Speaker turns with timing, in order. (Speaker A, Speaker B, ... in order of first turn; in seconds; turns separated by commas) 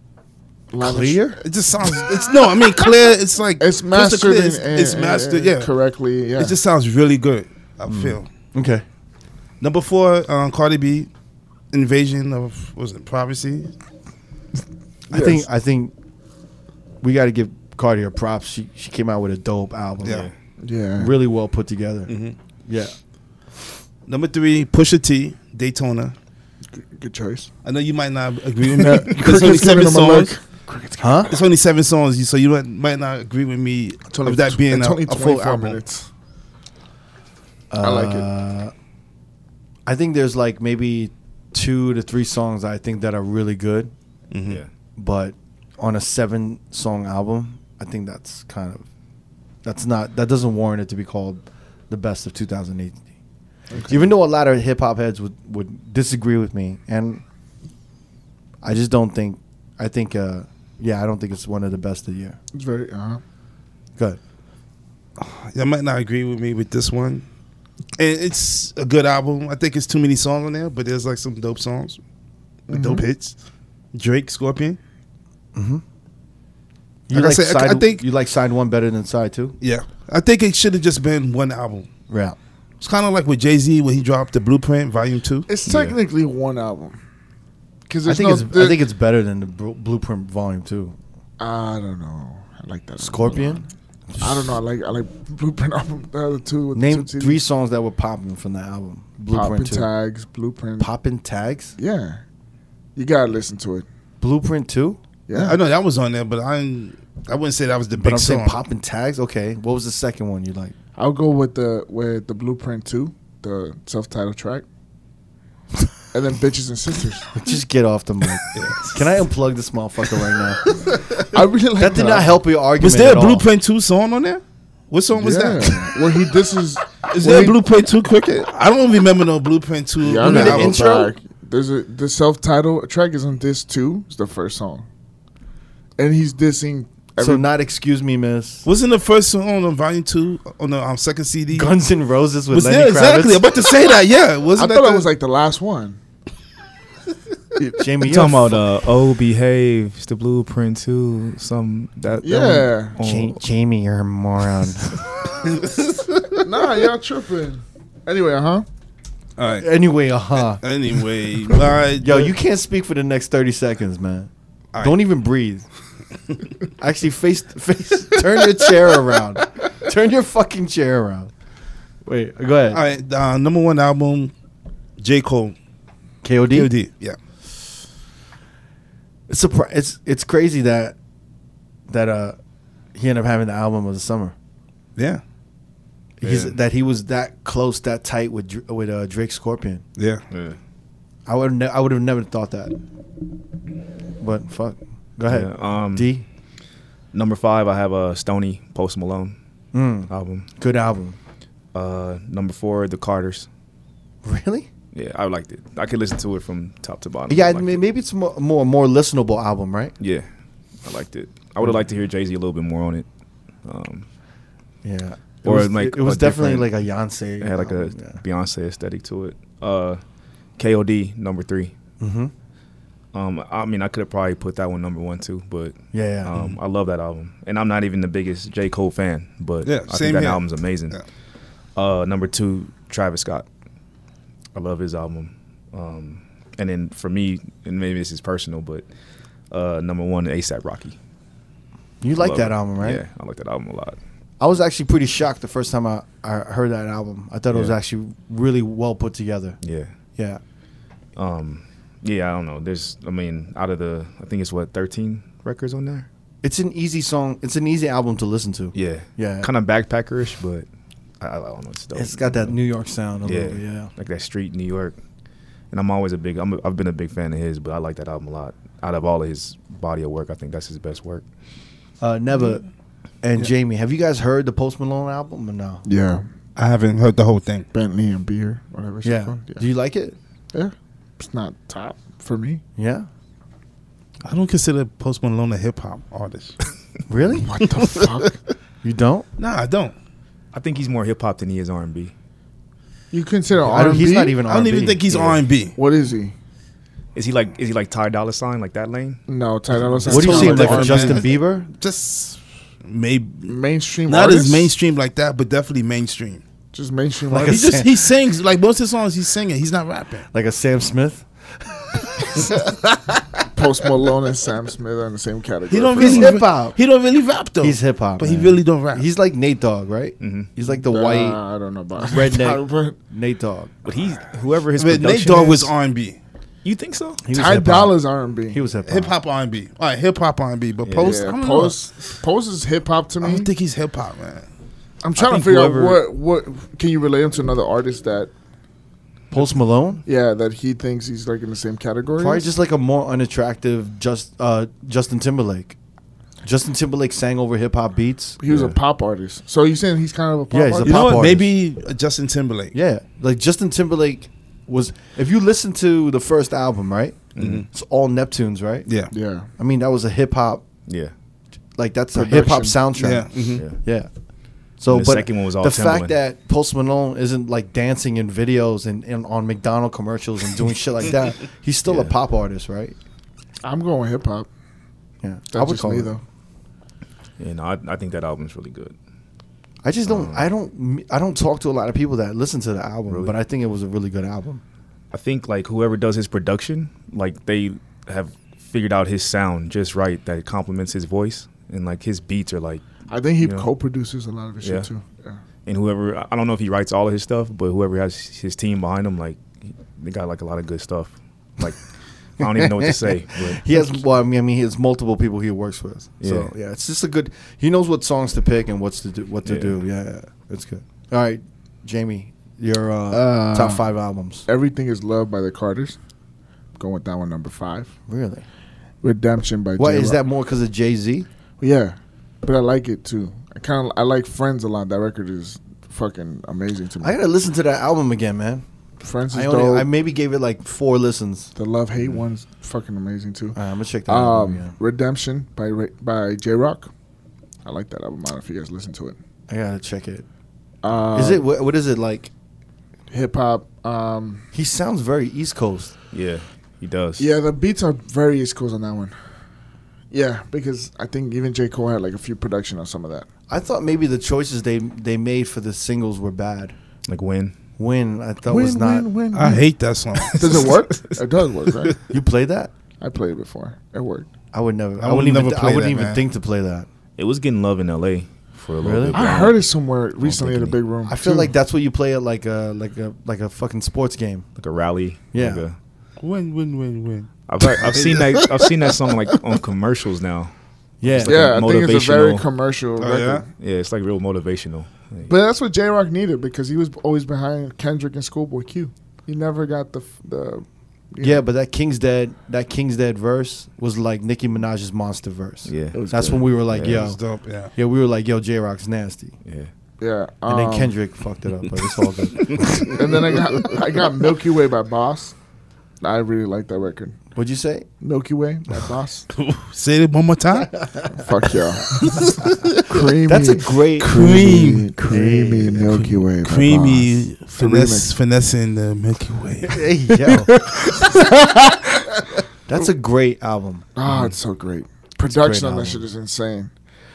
Speaker A: 0.7-2.4, Speaker B: 0.8-1.4, Speaker C: 1.4-5.7, Speaker A: 3.6-6.5, Speaker C: 6.4-8.3, Speaker B: 7.9-8.8, Speaker C: 9.6-11.1, Speaker C: 11.7-13.7, Speaker B: 15.1-15.9, Speaker A: 15.1-15.4, Speaker B: 17.0-20.3, Speaker D: 20.0-20.3, Speaker A: 20.6-21.1, Speaker B: 21.0-22.1, Speaker C: 22.1-22.4, Speaker B: 22.6-22.9, Speaker C: 24.1-26.1, Speaker A: 26.8-27.5, Speaker C: 27.6-30.3, Speaker A: 28.7-31.4, Speaker B: 31.0-31.3, Speaker C: 31.3-35.8, Speaker A: 34.2-36.1, Speaker B: 37.7-38.7, Speaker A: 37.8-38.3, Speaker B: 39.9-43.9, Speaker C: 44.3-44.6, Speaker B: 45.0-48.9, Speaker B: 49.6-53.0, Speaker A: 53.7-54.1, Speaker B: 53.9-57.2, Speaker B: 58.6-62.4, Speaker A: 62.5-63.2, Speaker C: 65.2-67.2, Speaker C: 68.0-72.0, Speaker C: 72.7-73.3, Speaker A: 72.7-73.0, Speaker C: 73.9-74.8, Speaker B: 75.5-75.8, Speaker B: 77.1-79.5, Speaker C: 77.1-78.0, Speaker C: 79.6-81.9, Speaker B: 82.1-82.4, Speaker C: 82.8-85.5, Speaker A: 85.5-87.0, Speaker D: 85.7-86.0, Speaker A: 87.9-88.8, Speaker B: 88.0-91.0, Speaker A: 91.4-93.7, Speaker B: 93.0-94.6, Speaker A: 94.2-97.4, Speaker B: 96.7-99.9, Speaker A: 99.3-100.9, Speaker B: 100.8-101.7, Speaker A: 101.8-102.2, Speaker A: 103.0-103.8, Speaker B: 104.2-105.0, Speaker A: 105.3-105.6, Speaker C: 105.3-108.6, Speaker B: 108.0-110.7, Speaker A: 111.0-114.6, Speaker A: 116.1-117.3, Speaker B: 117.3-120.7, Speaker C: 118.5-118.9, Speaker A: 120.9-122.3, Speaker B: 121.8-123.5, Speaker C: 122.8-126.1, Speaker A: 125.1-127.6, Speaker C: 127.0-130.8, Speaker A: 130.0-134.8, Speaker B: 130.2-131.1, Speaker A: 136.0-137.5, Speaker B: 137.2-138.7, Speaker C: 138.6-141.7, Speaker B: 141.5-143.5, Speaker C: 142.5-145.1, Speaker A: 144.6-146.0, Speaker B: 147.8-148.6, Speaker D: 148.0-153.4, Speaker A: 152.2-152.9, Speaker B: 153.0-155.1, Speaker C: 155.5-155.9, Speaker A: 156.4-158.7, Speaker C: 159.4-159.7, Speaker B: 159.6-160.6, Speaker C: 160.6-162.3, Speaker B: 162.0-165.7, Speaker B: 166.8-171.3, Speaker B: 172.0-172.8, Speaker C: 172.7-174.3, Speaker C: 175.0-175.5, Speaker B: 176.2-176.7, Speaker C: 176.5-177.2, Speaker B: 179.3-180.9, Speaker B: 181.9-182.4, Speaker B: 182.9-184.3, Speaker B: 186.2-189.8, Speaker D: 186.2-186.5, Speaker C: 190.0-190.2, Speaker D: 190.3-190.6, Speaker B: 191.2-192.8, Speaker B: 194.2-196.2, Speaker D: 195.3-196.1, Speaker D: 197.1-199.4, Speaker B: 199.7-201.2, Speaker D: 200.1-200.5, Speaker D: 201.7-203.5, Speaker B: 204.2-204.7, Speaker D: 204.9-207.8, Speaker B: 207.3-209.9, Speaker D: 210.0-210.3, Speaker D: 210.8-213.1, Speaker D: 213.6-214.1, Speaker B: 214.8-218.2, Speaker D: 215.4-216.7, Speaker D: 217.4-220.0, Speaker D: 220.6-221.7, Speaker B: 222.0-222.3, Speaker D: 223.1-231.0, Speaker B: 225.9-226.5, Speaker C: 229.6-231.0, Speaker D: 231.8-233.4, Speaker D: 234.5-238.8, Speaker D: 239.5-241.0, Speaker B: 242.0-243.0, Speaker D: 242.2-244.0, Speaker B: 244.4-249.6, Speaker D: 249.6-249.9, Speaker D: 251.2-256.1, Speaker B: 256.4-259.5, Speaker D: 258.7-260.6, Speaker D: 261.2-262.5, Speaker B: 261.9-263.9, Speaker D: 263.2-265.0, Speaker D: 265.7-271.2, Speaker B: 272.0-272.6, Speaker B: 273.2-275.8, Speaker A: 275.8-276.2, Speaker C: 276.6-277.7, Speaker A: 277.7-279.6, Speaker B: 279.0-280.1, Speaker A: 280.5-282.6, Speaker B: 282.8-283.1, Speaker C: 284.2-286.6, Speaker B: 287.1-287.5, Speaker A: 287.4-288.4, Speaker B: 288.8-289.2, Speaker C: 289.4-289.9, Speaker D: 290.5-292.1, Speaker A: 293.1-294.4, Speaker B: 293.6-295.4, Speaker C: 294.4-295.7, Speaker A: 295.8-296.3, Speaker D: 297.1-299.2, Speaker A: 299.3-301.2, Speaker C: 300.0-306.4, Speaker B: 300.1-301.7, Speaker D: 300.2-300.4, Speaker A: 303.4-304.7, Speaker A: 306.7-307.8, Speaker B: 307.3-307.9, Speaker C: 307.4-310.3, Speaker B: 310.3-311.2, Speaker B: 312.2-312.5, Speaker A: 313.5-316.3, Speaker C: 315.7-319.1, Speaker B: 316.0-316.8, Speaker B: 317.6-321.4, Speaker D: 320.2-320.5, Speaker A: 320.9-322.9, Speaker B: 321.9-323.7, Speaker D: 323.8-325.7, Speaker C: 324.8-326.2, Speaker D: 326.6-327.2, Speaker B: 327.2-328.0, Speaker A: 327.3-328.6, Speaker B: 328.5-329.1, Speaker C: 328.9-332.0, Speaker D: 330.8-331.2, Speaker A: 331.0-333.5, Speaker C: 333.2-334.5, Speaker A: 335.0-338.3, Speaker B: 335.2-336.0, Speaker B: 339.3-340.0, Speaker A: 340.0-342.5, Speaker B: 342.2-345.8, Speaker B: 346.4-348.4, Speaker A: 348.4-351.2, Speaker D: 348.5-348.8, Speaker B: 350.5-351.5, Speaker C: 350.8-352.7, Speaker B: 352.7-358.9, Speaker D: 357.3-357.6, Speaker C: 357.4-357.7, Speaker A: 359.1-359.5, Speaker B: 359.6-360.6, Speaker D: 360.9-361.1, Speaker B: 361.8-364.1, Speaker A: 362.1-362.8, Speaker C: 363.0-363.6, Speaker B: 364.8-372.9, Speaker D: 364.9-366.1, Speaker D: 371.9-372.1, Speaker A: 373.6-374.5, Speaker B: 375.2-376.1, Speaker A: 375.5-376.2, Speaker D: 377.4-378.9, Speaker B: 379.8-384.6, Speaker D: 380.1-380.5, Speaker D: 383.1-383.3, Speaker D: 385.1-392.8, Speaker A: 393.1-395.4, Speaker D: 393.4-393.7, Speaker D: 394.6-394.9, Speaker D: 395.6-401.8, Speaker D: 402.4-403.7, Speaker B: 402.4-414.4, Speaker D: 406.2-406.5, Speaker D: 409.4-409.8, Speaker A: 413.1-413.8, Speaker A: 414.4-416.0, Speaker A: 416.8-417.9, Speaker B: 418.1-418.4, Speaker A: 419.0-420.2, Speaker B: 419.8-421.3, Speaker A: 421.6-427.2, Speaker B: 427.0-428.6, Speaker A: 429.0-429.9, Speaker B: 429.3-431.5, Speaker A: 431.5-436.9, Speaker B: 433.5-434.8, Speaker A: 437.6-439.2, Speaker B: 439.5-440.2, Speaker A: 440.8-441.4, Speaker B: 441.1-442.3, Speaker A: 443.1-444.4, Speaker B: 444.5-445.9, Speaker D: 446.1-447.3, Speaker A: 447.2-449.1, Speaker A: 450.1-453.3, Speaker B: 453.5-456.8, Speaker D: 457.1-457.6, Speaker B: 457.8-459.1, Speaker A: 458.5-459.7, Speaker C: 459.3-460.7, Speaker A: 460.3-462.0, Speaker B: 462.1-462.7, Speaker A: 463.0-464.3, Speaker B: 464.5-466.9, Speaker C: 465.0-466.2, Speaker D: 467.2-469.6, Speaker B: 468.8-469.3, Speaker A: 469.1-471.5, Speaker D: 470.2-470.8, Speaker B: 471.1-474.5, Speaker D: 474.6-475.8, Speaker B: 475.3-475.6, Speaker C: 476.2-478.3, Speaker D: 477.5-482.4, Speaker B: 481.0-481.6, Speaker A: 481.2-483.5, Speaker C: 483.0-483.4, Speaker D: 483.6-485.3, Speaker A: 485.2-491.4, Speaker B: 491.2-497.2, Speaker D: 495.6-496.0, Speaker A: 495.9-496.5, Speaker D: 496.7-497.1, Speaker C: 496.8-497.7, Speaker B: 497.7-499.4, Speaker D: 499.4-499.7, Speaker A: 500.0-500.9, Speaker B: 500.5-503.1, Speaker A: 502.9-505.3, Speaker A: 506.0-507.2, Speaker B: 507.3-507.9, Speaker A: 508.0-509.3, Speaker C: 509.3-510.9, Speaker B: 510.8-511.1, Speaker A: 511.1-518.1, Speaker C: 511.9-512.7, Speaker B: 513.2-516.0, Speaker C: 514.0-514.9, Speaker C: 515.9-519.8, Speaker B: 519.6-520.5, Speaker A: 520.3-522.3, Speaker B: 522.7-524.3, Speaker A: 524.0-526.7, Speaker B: 525.3-526.0